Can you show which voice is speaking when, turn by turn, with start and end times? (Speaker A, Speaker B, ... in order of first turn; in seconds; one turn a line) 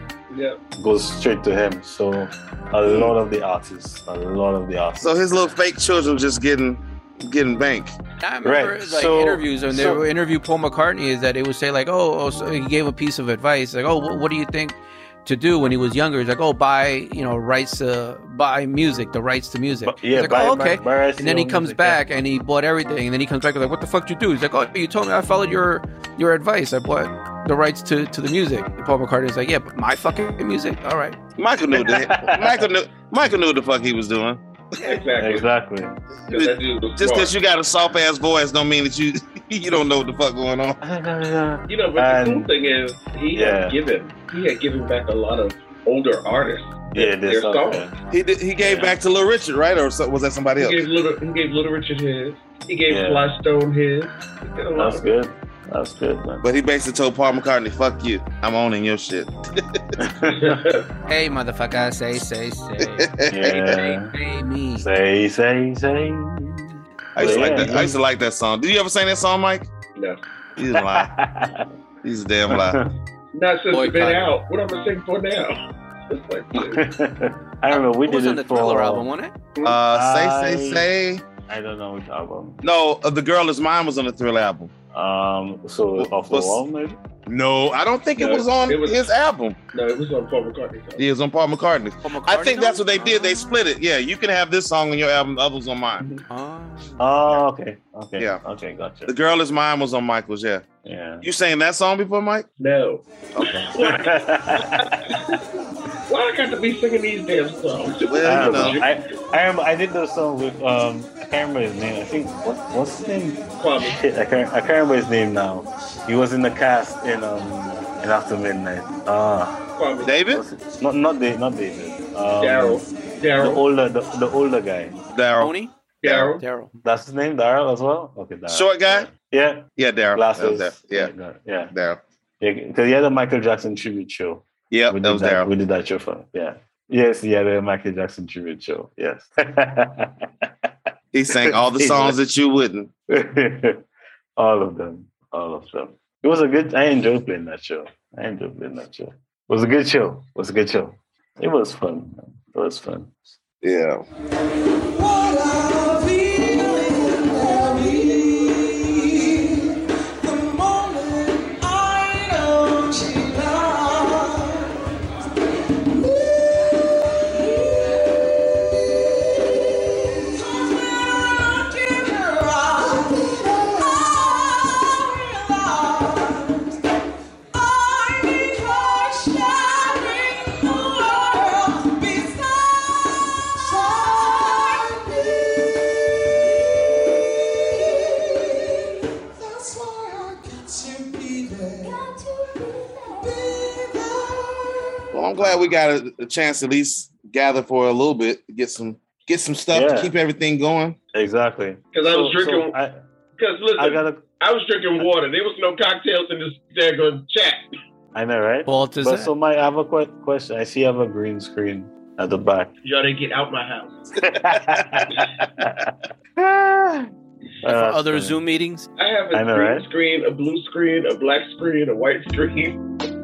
Speaker A: 0.3-0.6
Speaker B: 0.8-5.3
Speaker C: 2.8-3.1
Speaker C: 5.0-7.9
Speaker D: 8.2-31.2
Speaker B: 8.4-10.1
Speaker B: 19.8-22.0
Speaker C: 31.4-34.4
Speaker B: 31.7-32.6
Speaker D: 34.8-35.0
Speaker A: 34.9-35.5
Speaker B: 35.1-36.0
Speaker C: 36.3-40.8
Speaker A: 36.3-37.3
Speaker B: 40.8-42.5
Speaker A: 41.7-47.8
Speaker B: 43.3-43.8
Speaker B: 46.9-47.9
Speaker C: 48.1-50.8
Speaker B: 48.6-48.9
Speaker A: 50.6-55.1
Speaker B: 52.9-53.3
Speaker B: 54.7-56.5
Speaker C: 56.4-59.8
Speaker B: 60.0-60.5
Speaker A: 60.5-60.8
Speaker D: 61.1-64.9
Speaker C: 63.0-63.6
Speaker B: 63.3-64.1
Speaker B: 64.8-67.9
Speaker C: 67.1-69.7
Speaker D: 67.2-67.5
Speaker A: 69.9-70.2
Speaker C: 70.6-71.1
Speaker B: 70.7-71.7
Speaker C: 72.0-72.8
Speaker B: 72.5-72.9
Speaker A: 73.3-75.6
Speaker D: 73.7-74.3
Speaker A: 76.1-76.8
Speaker B: 76.5-79.1
Speaker D: 77.7-79.3
Speaker C: 79.6-81.3
Speaker B: 79.7-80.9
Speaker B: 81.5-82.6
Speaker C: 82.6-84.7
Speaker B: 84.9-87.0
Speaker C: 86.0-86.6
Speaker C: 87.3-89.6
Speaker A: 88.2-89.1
Speaker A: 89.7-91.0
Speaker C: 91.0-96.0
Speaker D: 92.0-93.2
Speaker D: 96.3-97.0
Speaker B: 97.0-99.1
Speaker C: 99.1-100.6
Speaker B: 100.8-101.2
Speaker C: 101.2-102.5
Speaker A: 102.6-104.0
Speaker C: 103.3-103.7
Speaker B: 103.8-105.0
Speaker A: 106.1-108.8
Speaker C: 108.0-108.8
Speaker B: 108.2-119.6
Speaker A: 113.6-114.0
Speaker A: 119.7-120.1
Speaker C: 120.0-120.4
Speaker B: 120.3-125.0
Speaker A: 122.4-123.6
Speaker C: 125.1-126.3
Speaker D: 125.4-125.7
Speaker A: 126.0-126.4
Speaker D: 126.3-126.8
Speaker B: 126.8-131.7
Speaker C: 128.5-129.1
Speaker C: 129.8-131.1
Speaker C: 131.7-132.0
Speaker B: 132.4-140.1
Speaker C: 134.7-135.5
Speaker C: 141.1-142.9
Speaker B: 141.3-142.2
Speaker B: 143.1-143.8
Speaker B: 144.4-153.3
Speaker C: 153.6-154.0
Speaker E: 154.9-158.9
Speaker E: 161.1-164.1
Speaker E: 171.8-172.7
Speaker E: 179.8-180.3
Speaker E: 180.9-181.4
Speaker E: 182.0-182.7
Speaker E: 183.7-184.0
Speaker E: 184.9-185.3
Speaker E: 189.9-191.7
Speaker C: 195.1-201.0
Speaker B: 195.4-195.8
Speaker B: 199.7-200.1
Speaker B: 201.1-202.9
Speaker A: 201.9-202.7
Speaker A: 203.3-207.6
Speaker B: 203.8-204.2
Speaker B: 208.1-212.7
Speaker D: 208.7-209.3
Speaker A: 212.8-214.0
Speaker B: 214.2-217.1
Speaker B: 217.6-218.4
Speaker D: 217.7-218.9
Speaker A: 219.0-222.8
Speaker B: 219.3-219.9